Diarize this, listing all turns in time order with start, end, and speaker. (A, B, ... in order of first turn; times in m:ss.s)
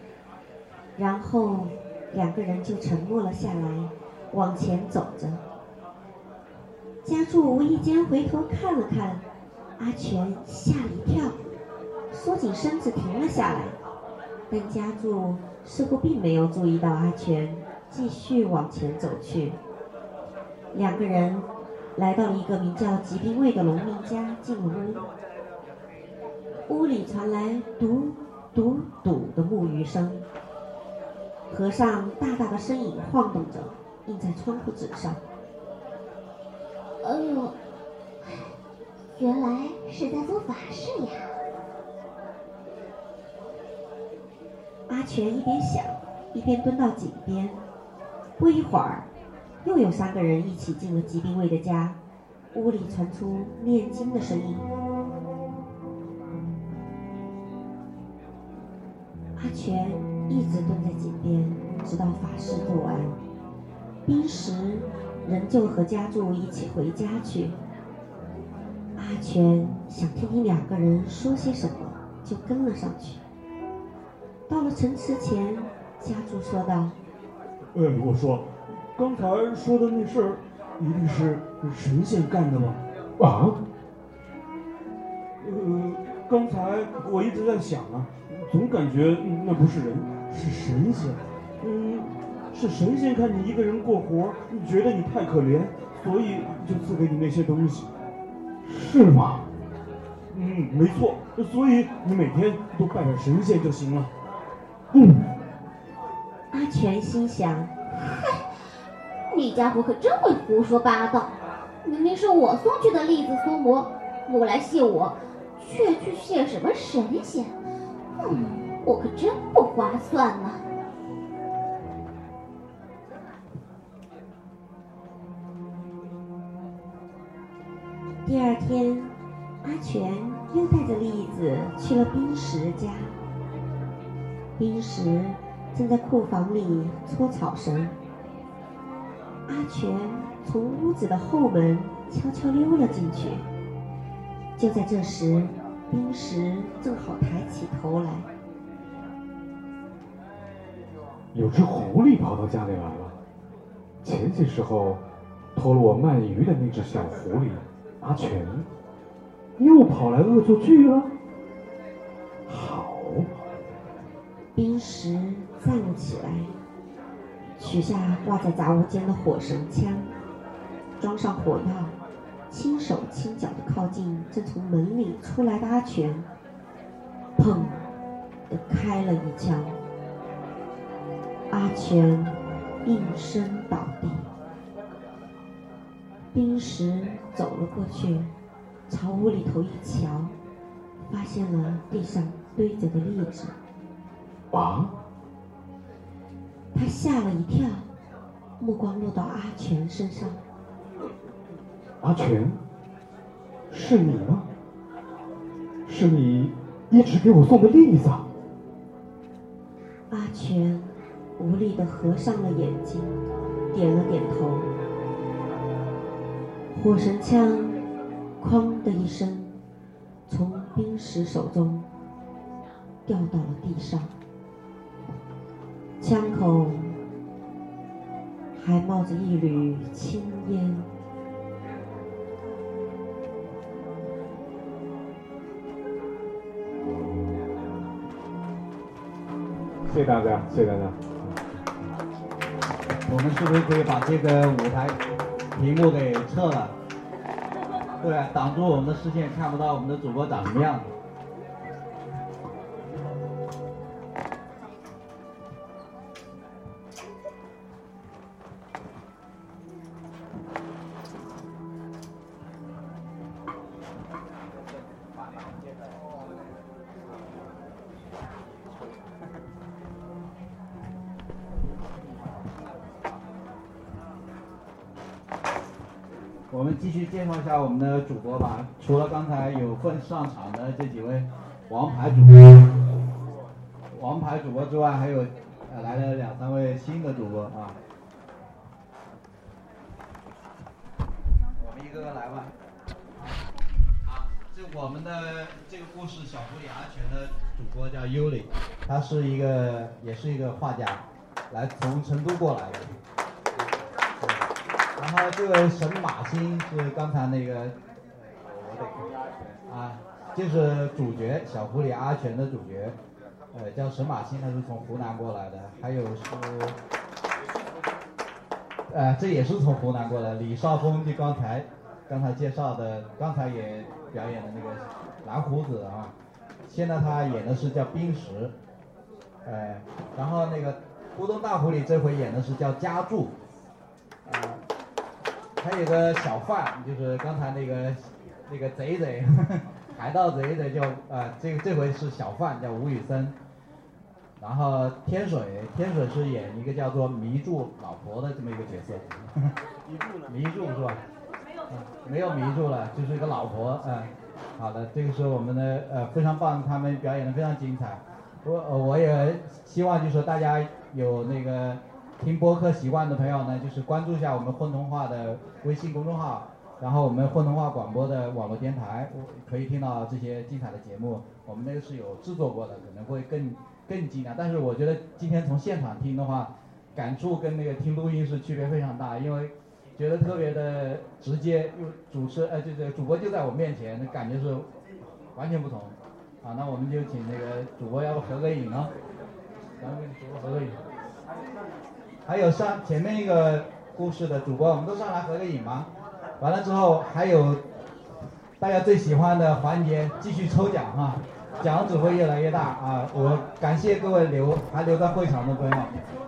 0:01.0-0:05.4 A
0:07.0-0:09.2 A
0:09.8-0:11.4 A
0:12.1-0:13.8 A
0:14.5-0:19.6 A
0:20.7-0:25.0 A
0:26.7-0:30.2 A
0:31.5-0:35.2 A
0:37.0-0:37.5 B
0:38.2-0:38.5 B
0:39.2-0:41.3 B
0:44.9-0:47.6 A
0:48.4-0:49.1 A
0:49.6-0:52.0 A
0:52.5-0:54.6 A
0:59.4-1:03.2 A
1:04.0-1:07.6 A
1:09.0-1:13.2 A
1:14.5-1:17.0 A
1:17.7-1:22.8 C
1:23.2-1:23.6 D
1:25.4-1:37.9 C
1:38.6-1:39.4 D
1:40.3-1:44.1 C
1:46.5-1:47.7 A
1:47.9-1:48.5 B
1:49.3-1:51.3 B
1:51.8-1:57.6 B
1:58.2-2:00.6 B
2:08.2-2:13.2 A
2:14.6-2:17.9 A
2:19.5-2:23.5 A
2:24.6-2:28.3 A
2:31.3-2:33.1 D
2:34.0-2:35.0 D
2:35.6-2:38.7 D
2:39.6-2:41.1 D
2:42.5-2:43.3 D
2:44.6-2:46.5 A
2:47.6-2:50.1 A
2:51.0-2:51.9 A
2:52.5-2:56.3 A
2:57.4-2:57.9 A
2:58.5-2:59.8 A
3:01.5-3:04.3 A
3:06.3-3:08.3 A
3:08.9-3:10.4 A
3:11.0-3:13.6 A
3:14.5-3:14.9 D
3:16.7-3:17.9 A
3:18.6-3:20.4 A
3:22.0-3:22.6 D
3:23.7-3:24.5 D
3:25.9-3:28.2 D
3:30.1-3:33.2 A
3:33.7-3:34.7 A
3:36.7-3:37.8 A
3:38.4-3:39.6 A
3:40.3-3:41.9 A
3:43.1-3:44.1 A
3:46.0-3:47.0 A
3:48.5-3:50.9 A
3:59.9-4:01.3 D
4:03.1-4:05.0 E
4:05.6-4:06.7 E
4:08.0-4:10.9 E
4:36.5-4:42.6 E
4:43.9-4:47.8 E
4:51.6-4:52.5 E
4:54.0-5:02.9 E
5:05.0-5:07.8 E
5:08.4-5:09.1 E
5:09.7-5:13.0 E
5:13.5-5:16.8 E
5:18.9-5:26.1 E
5:26.7-5:28.5 E
5:29.4-5:33.3 E
5:34.3-5:34.6 E
5:35.6-5:43.4 E
5:44.4-5:49.5 E
5:50.3-5:51.0 E
5:51.7-6:24.7 E
6:25.4-6:28.9 E
6:29.8-6:30.8 E
6:32.3-6:35.9 E
6:36.4-6:37.6 E
6:38.6-6:46.0 E